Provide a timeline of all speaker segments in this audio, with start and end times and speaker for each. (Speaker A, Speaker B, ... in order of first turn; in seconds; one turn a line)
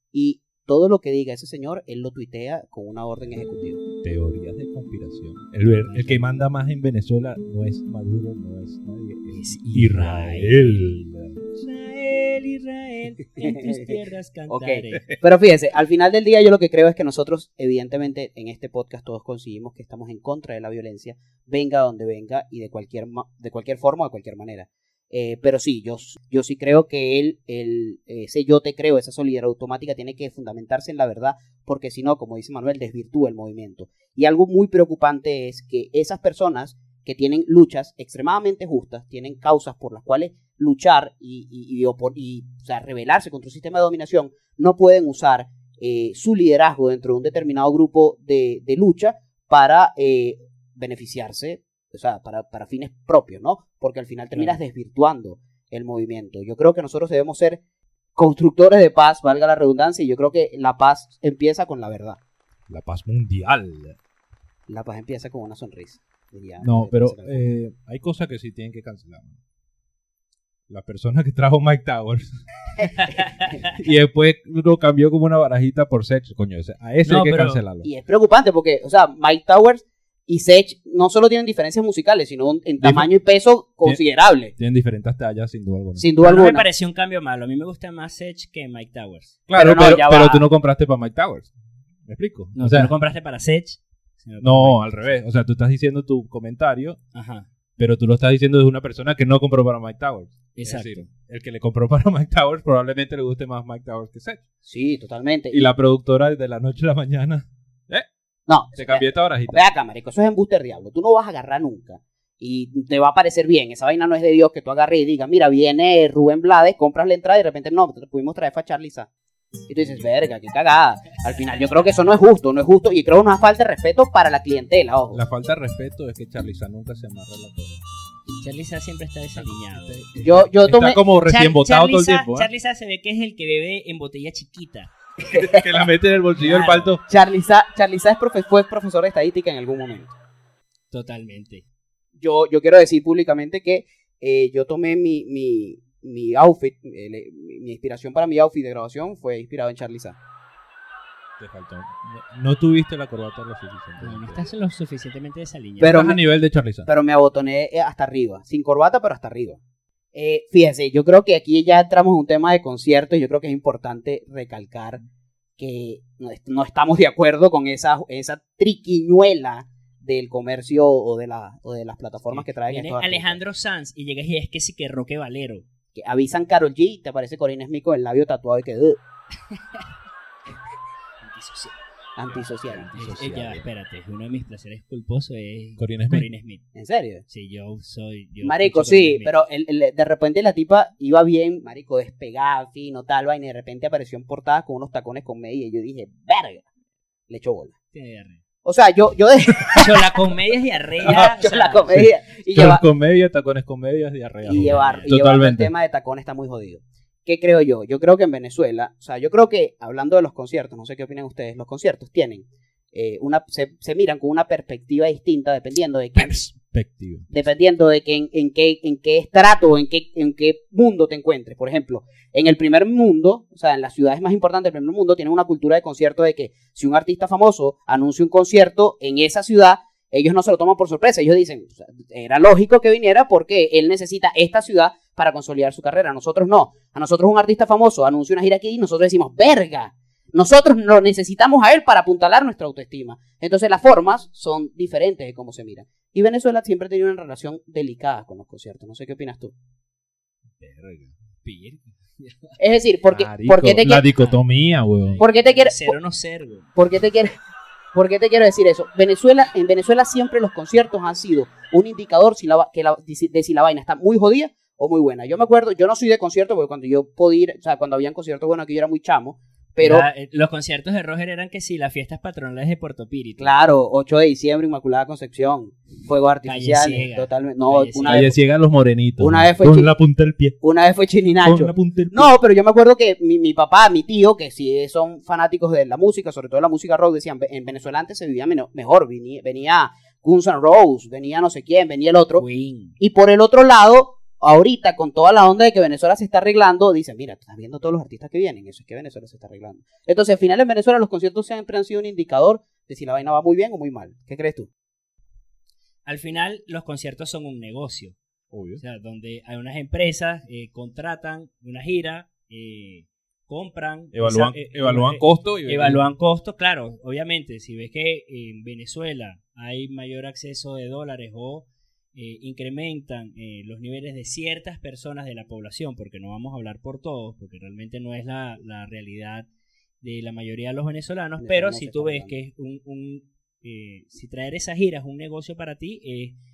Speaker A: 0.1-3.8
Speaker B: 4.0-11.6
Speaker C: 5.8-6.3
Speaker C: 9.3-11.0
Speaker C: 11.6-15.1
Speaker A: 13.4-14.0
Speaker A: 14.5-57.6
Speaker A: 58.2-62.2
Speaker B: 62.7-64.0
Speaker A: 64.7-67.5
Speaker B: 66.6-69.4
Speaker B: 70.7-72.4
Speaker C: 72.8-73.7
Speaker B: 73.8-77.9
Speaker C: 77.0-77.6
Speaker A: 77.8-84.5
Speaker B: 82.8-83.1
Speaker B: 84.6-86.1
Speaker A: 86.0-86.7
Speaker C: 86.2-89.4
Speaker B: 89.5-91.5
Speaker A: 89.6-90.5
Speaker B: 92.1-92.9
Speaker C: 92.6-95.1
Speaker B: 94.4-97.0
Speaker C: 97.1-97.5
Speaker B: 97.8-104.4
Speaker C: 100.6-101.1
Speaker A: 104.7-105.7
Speaker B: 105.5-108.1
Speaker A: 108.5-119.1
Speaker B: 108.8-109.7
Speaker A: 119.7-125.2
Speaker B: 125.1-127.8
Speaker C: 128.4-130.0
Speaker B: 129.4-132.5
Speaker A: 130.2-131.0
Speaker C: 131.2-134.9
Speaker A: 135.3-135.6
Speaker B: 135.3-137.0
Speaker C: 136.4-136.9
Speaker A: 137.1-140.1
Speaker C: 140.9-141.7
Speaker A: 142.2-150.2
Speaker B: 151.4-154.5
Speaker C: 154.0-156.1
Speaker A: 155.8-156.2
Speaker B: 155.8-156.9
Speaker A: 156.9-159.6
Speaker A: 160.1-165.0
Speaker A: 165.6-173.4
Speaker C: 172.3-175.7
Speaker A: 175.9-179.0
Speaker C: 179.6-179.8
Speaker C: 181.2-181.8
Speaker A: 182.2-182.9
Speaker B: 182.3-183.7
Speaker C: 182.9-186.6
Speaker B: 185.8-186.3
Speaker A: 186.8-187.2
Speaker C: 187.3-189.3
Speaker A: 188.4-196.7
Speaker A: 197.3-197.7
Speaker C: 197.9-198.4
Speaker A: 198.7-200.1
Speaker C: 199.7-201.8
Speaker A: 201.0-202.8
Speaker B: 201.1-201.3
Speaker B: 201.9-205.7
Speaker A: 204.4-216.6
Speaker C: 204.6-205.1
Speaker B: 216.2-217.3
Speaker A: 217.3-249.5
Speaker B: 250.6-251.1
Speaker C: 251.4-252.6
Speaker A: 252.6-254.1
Speaker B: 253.1-255.2
Speaker C: 255.0-256.7
Speaker A: 255.2-255.9
Speaker A: 256.8-257.4
Speaker A: 257.9-270.1
Speaker C: 269.8-273.5
Speaker A: 273.4-278.3
Speaker C: 276.5-278.3
Speaker B: 278.1-280.6
Speaker A: 279.2-279.9
Speaker A: 280.6-292.4
Speaker B: 281.4-282.3
Speaker C: 292.4-293.0
Speaker A: 293.0-304.7
Speaker C: 306.1-308.2
Speaker B: 308.5-308.8
Speaker C: 308.8-329.5
Speaker B: 314.1-316.1
Speaker C: 330.0-336.4
Speaker A: 331.4-332.4